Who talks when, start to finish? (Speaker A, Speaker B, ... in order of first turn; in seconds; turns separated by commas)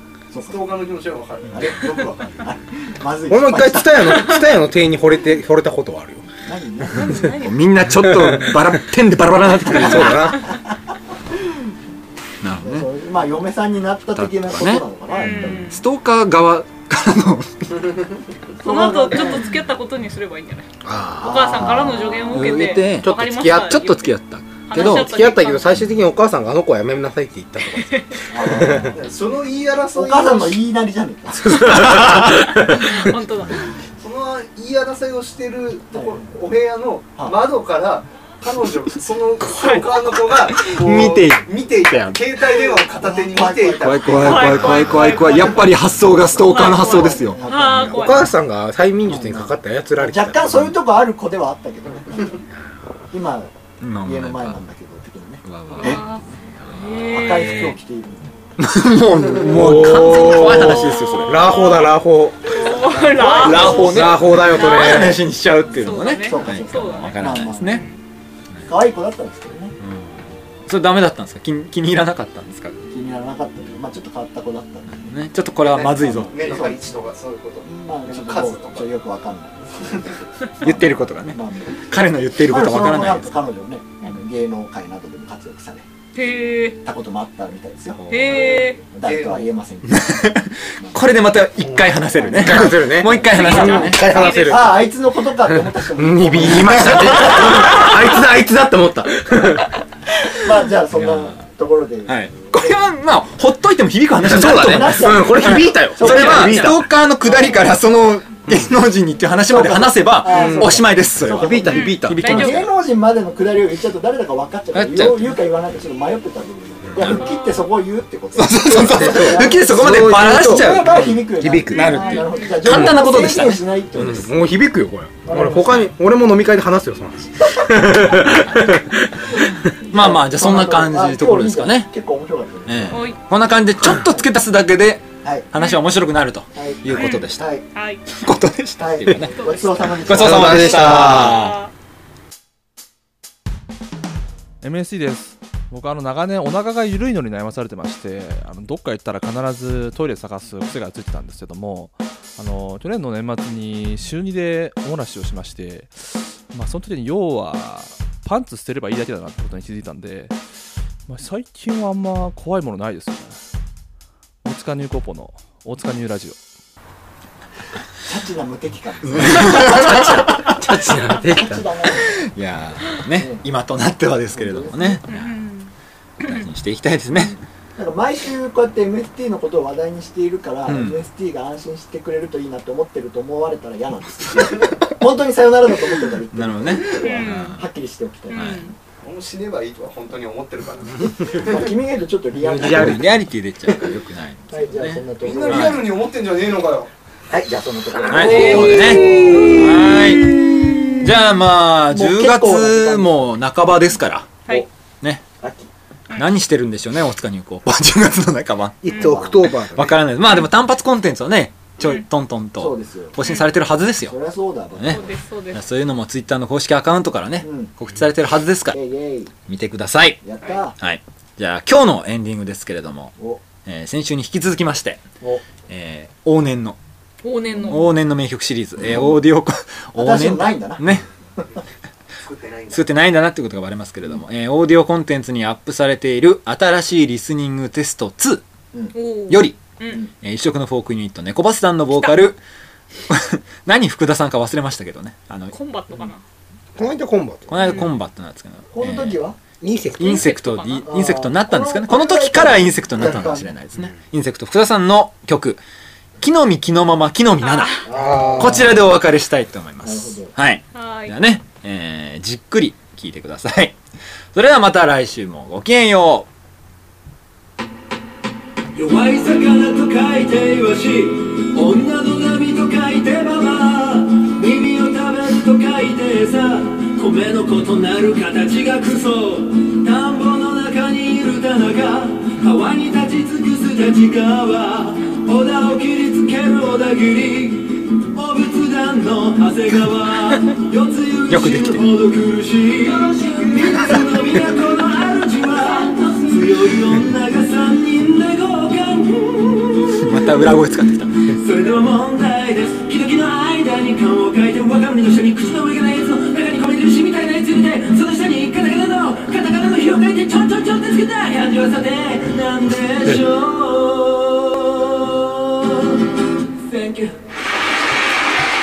Speaker A: 0.3-0.7, Speaker B: 0.4-2.0, Speaker A: 1.5-4.3, Speaker C: 3.3-6.2, Speaker A: 6.4-7.3, Speaker D: 6.9-7.7, Speaker E: 7.1-10.4, Speaker C: 7.9-8.6, Speaker C: 9.6-10.5, Speaker E: 12.4-12.9, Speaker A: 12.6-15.7, Speaker E: 14.2-17.8, Speaker D: 15.1-15.8, Speaker A: 18.6-19.5, Speaker D: 18.6-20.7, Speaker C: 20.8-21.6, Speaker A: 21.2-22.6, Speaker D: 21.2-25.8, Speaker E: 22.3-25.2, Speaker C: 22.8-23.9, Speaker C: 24.7-29.0, Speaker D: 27.7-28.3, Speaker A: 28.3-29.0, Speaker B: 28.9-30.6, Speaker A: 29.9-31.7, Speaker C: 31.4-33.2, Speaker E: 31.9-32.2, Speaker D: 32.2-33.7, Speaker B: 34.0-45.4, Speaker A: 35.9-36.3, Speaker A: 37.2-37.4, Speaker D: 39.4-40.0, Speaker E: 40.5-42.6, Speaker A: 43.0-48.2, Speaker E: 43.8-47.4, Speaker D: 44.1-45.7, Speaker D: 46.4-48.4, Speaker C: 47.5-50.8, Speaker A: 49.1-52.4, Speaker A: 53.1-56.0, Speaker E: 53.8-54.6, Speaker E: 55.4-56.2, Speaker D: 55.8-57.7, Speaker A: 56.9-58.3, Speaker E: 58.6-61.5, Speaker C: 59.4-63.0, Speaker D: 59.9-67.9, Speaker A: 62.8-64.3, Speaker E: 63.4-67.8, Speaker C: 63.7-65.2, Speaker A: 66.2-67.8, Speaker A: 68.7-69.8, Speaker E: 69.8-72.9, Speaker A: 72.9-75.2, Speaker E: 75.0-76.6, Speaker B: 75.7-78.9, Speaker A: 76.0-76.8, Speaker A: 77.7-81.8, Speaker E: 80.6-83.3, Speaker A: 82.5-85.8, Speaker D: 86.1-86.8, Speaker A: 86.8-90.2, Speaker E: 88.0-88.7, Speaker D: 88.1-88.8, Speaker B: 88.8-89.5, Speaker E: 89.9-94.3, Speaker A: 90.8-91.2, Speaker A: 92.0-92.7, Speaker C: 92.3-94.8, Speaker D: 93.2-94.8, Speaker A: 93.5-97.8, Speaker C: 95.9-99.7, Speaker E: 96.4-98.1, Speaker A: 100.3-102.2, Speaker E: 100.9-101.4, Speaker E: 102.0-112.7, Speaker C: 104.2-106.9, Speaker A: 104.4-107.7, Speaker A: 109.5-124.3, Speaker C: 110.3-112.6, Speaker D: 111.7-112.6, Speaker E: 114.7-115.4, Speaker E: 116.9-117.2, Speaker D: 117.0-117.7, Speaker E: 118.3-123.7, Speaker C: 118.7-123.0, Speaker D: 121.8-122.6, Speaker C: 124.0-129.7, Speaker A: 125.2-125.8, Speaker E: 125.3-125.9, Speaker A: 129.8-133.1, Speaker E: 129.9-131.9, Speaker E: 132.7-137.5, Speaker D: 132.9-133.2, Speaker D: 135.6-135.8, Speaker A: 136.5-137.6, Speaker D: 136.9-138.0, Speaker E: 138.1-141.6, Speaker A: 138.8-141.1, Speaker D: 139.3-141.7, Speaker C: 140.1-141.4, Speaker F: 144.6-160.4, Speaker F: 161.1-163.4, Speaker F: 164.4-166.4, Speaker A: 168.0-170.3, Speaker E: 169.0-170.8, Speaker C: 169.4-171.7, Speaker A: 171.3-172.2, Speaker E: 172.2-175.4, Speaker A: 173.2-173.4, Speaker A: 174.3-175.0, Speaker D: 175.1-176.4, Speaker E: 176.2-177.3, Speaker A: 177.1-188.7, Speaker E: 180.7-181.0, Speaker E: 186.3-187.6, Speaker D: 187.0-187.6, Speaker D: 188.3-188.7, Speaker E: 188.3-188.7, Speaker B: 189.0-191.6, Speaker A: 191.3-193.1, Speaker C: 192.4-193.1, Speaker E: 192.6-195.9, Speaker A: 194.5-195.8, Speaker B: 195.2-196.9, Speaker A: 197.3-201.0, Speaker D: 198.0-199.7, Speaker E: 198.1-200.4, Speaker E: 201.0-204.4, Speaker A: 201.9-203.3, Speaker A: 205.4-205.7, Speaker E: 206.1-214.2, Speaker C: 208.8-210.0, Speaker A: 208.9-209.5, Speaker A: 212.6-213.2, Speaker D: 213.2-213.5, Speaker A: 214.1-215.0, Speaker E: 214.8-218.8, Speaker D: 214.8-215.6, Speaker A: 217.4-217.7, Speaker A: 218.7-219.3, Speaker E: 219.5-220.2, Speaker A: 220.2-220.8, Speaker E: 220.8-225.0, Speaker E: 225.7-226.8, Speaker D: 227.2-227.9, Speaker E: 227.6-231.1, Speaker A: 229.9-230.9, Speaker B: 232.2-232.8, Speaker E: 232.7-238.4, Speaker D: 238.9-240.0, Speaker E: 239.3-239.6, Speaker E: 240.1-242.4, Speaker D: 242.0-242.2, Speaker E: 243.1-245.5, Speaker D: 245.5-246.2, Speaker C: 246.8-247.8, Speaker E: 247.5-249.2, Speaker D: 247.6-247.9, Speaker A: 248.7-249.4, Speaker C: 249.6-250.3, Speaker E: 250.0-255.6, Speaker D: 250.0-251.0, Speaker A: 250.8-253.5, Speaker E: 256.2-263.8, Speaker D: 257.4-257.8, Speaker A: 257.9-258.7, Speaker C: 257.9-258.8, Speaker A: 259.8-260.3, Speaker D: 260.7-261.2, Speaker E: 264.3-266.3, Speaker G: 268.7-300.0, Speaker E: 291.3-291.9, Speaker E: 299.9-301.3, Speaker G: 301.3-315.3, Speaker G: 316.6-317.1